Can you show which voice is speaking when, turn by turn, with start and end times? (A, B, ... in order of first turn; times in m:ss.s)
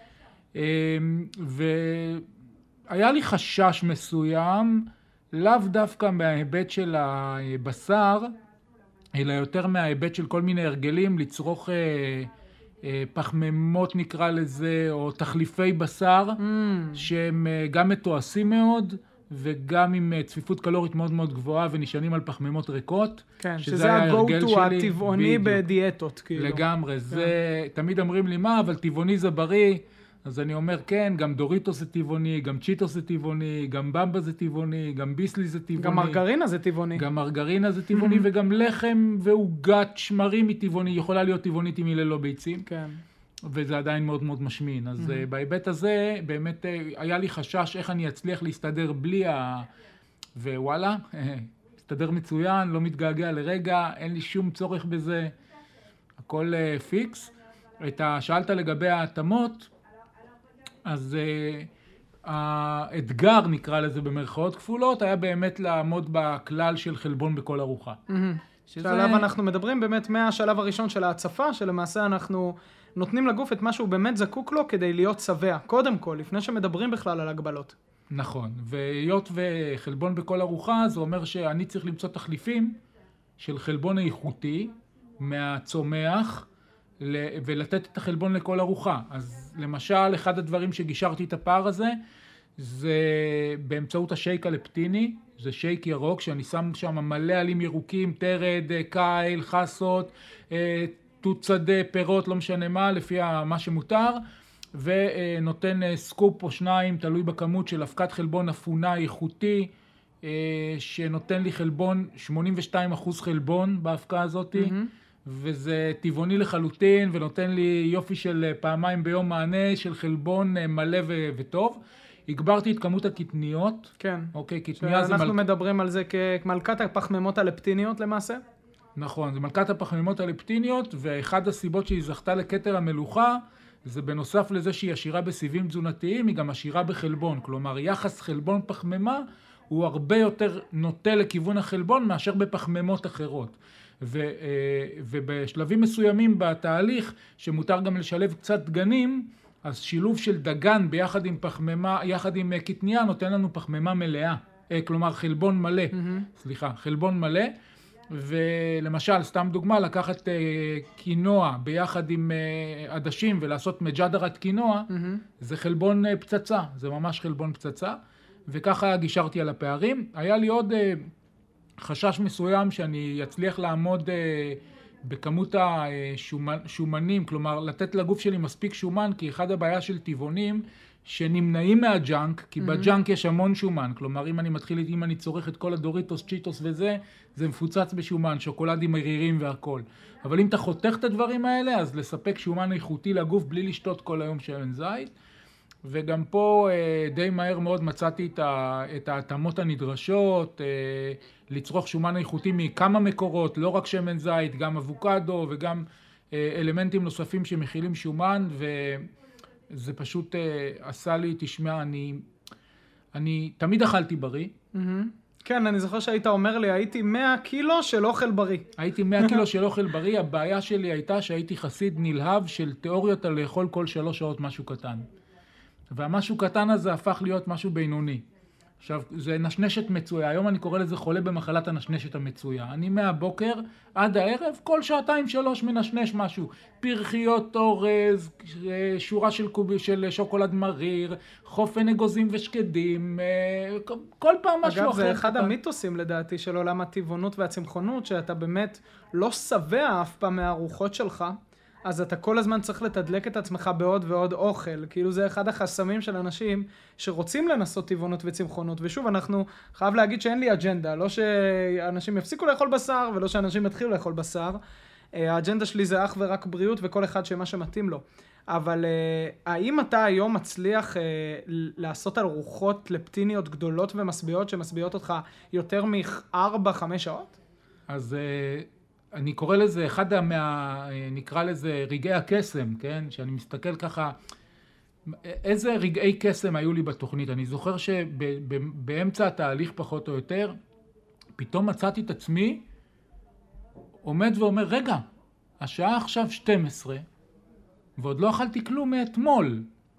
0:00.5-0:02.2 A
0:02.9-0:08.3 A
0:09.1-0:12.3 A
0:12.8-0:16.4 A
0:16.4-0:17.0 B
0:17.0-0:25.6 A
0:23.4-0:27.3 B
0:26.4-0:36.2 A
0:35.8-0:37.0 B
0:37.0-0:42.6 A
0:37.9-0:38.2 B
0:42.6-0:43.0 B
0:43.5-0:49.7 A
0:45.0-0:45.2 B
0:50.4-0:55.3 A
0:56.2-0:59.7 A
1:00.8-1:01.7 A
1:02.2-1:08.0 A
1:08.1-1:17.8 B
1:08.7-1:09.3 A
1:18.1-1:22.8 A
1:23.4-1:26.5 A
1:27.0-1:32.0 A
1:32.6-1:44.2 A
1:44.7-1:49.7 A
1:50.2-2:05.4 A
1:54.5-1:54.9 B
2:04.0-2:08.4 B
2:09.0-2:37.5 A
2:35.9-2:36.3 B
2:38.1-2:44.9 A
2:44.9-2:45.2 B
2:45.4-2:48.0 A
2:48.5-2:51.0 A
2:51.8-3:15.1 A
3:02.6-3:02.9 B
3:15.8-3:29.0 A
3:29.7-3:32.2 A
3:33.1-3:34.5 A
3:34.7-3:38.7 B
3:38.8-3:45.0 A
3:45.9-3:48.2 A
3:48.8-4:05.5 A
4:04.6-4:24.6 B
4:25.1-4:37.4 B
4:37.9-4:44.1 A
4:45.1-4:50.5 A
4:51.4-4:52.6 A
4:54.0-4:55.0 A
4:55.6-4:57.0 A
4:58.0-4:59.6 A